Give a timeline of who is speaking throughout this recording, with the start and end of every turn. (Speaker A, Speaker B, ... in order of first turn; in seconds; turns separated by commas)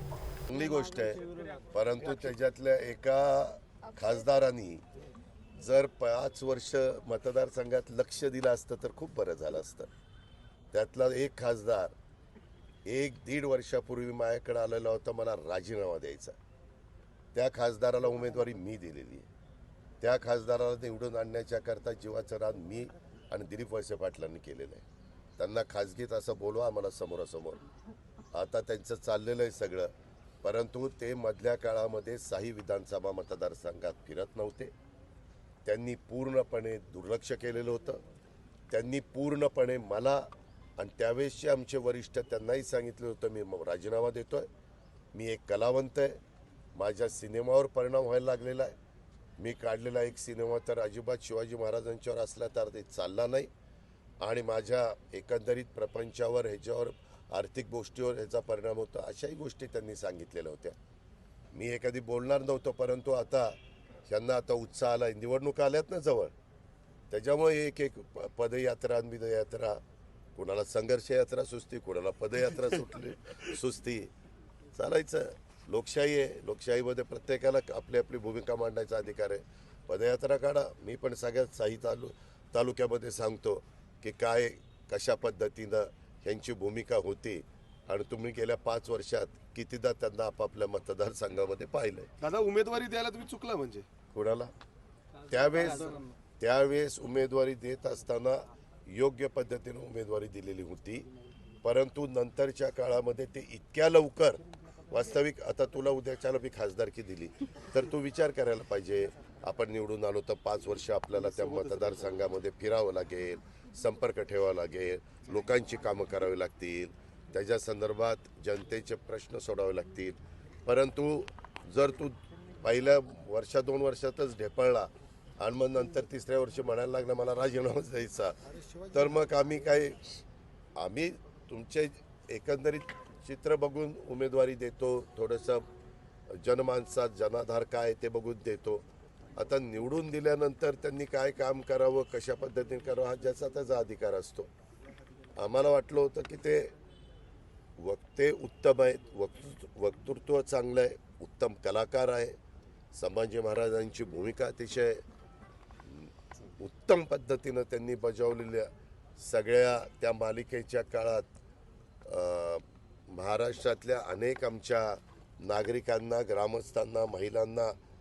Speaker A: 0.5-4.8, Speaker A: 5.6-9.9, Speaker A: 10.7-11.9, Speaker A: 12.8-16.4, Speaker A: 17.3-19.3, Speaker A: 20.0-24.8, Speaker A: 25.4-27.6, Speaker A: 28.3-29.9, Speaker A: 30.4-34.7, Speaker A: 35.6-38.0, Speaker A: 38.7-44.5, Speaker A: 45.1-46.2, Speaker A: 46.7-48.7, Speaker A: 49.4-53.5, Speaker A: 54.2-60.8, Speaker A: 61.5-66.3, Speaker A: 67.1-69.8, Speaker A: 70.3-74.1, Speaker A: 74.7-92.1, Speaker B: 92.2-93.9, Speaker A: 94.1-94.5, Speaker A: 95.3-101.1, Speaker B: 95.5-96.1, Speaker A: 101.6-128.4, Speaker B: 111.3-112.0, Speaker A: 128.9-130.2, Speaker A: 130.8-135.7, Speaker A: 136.3-138.8, Speaker A: 139.3-144.5, Speaker A: 145.3-146.7, Speaker A: 147.8-152.4, Speaker A: 152.9-155.0, Speaker A: 155.8-161.3, Speaker A: 162.0-167.8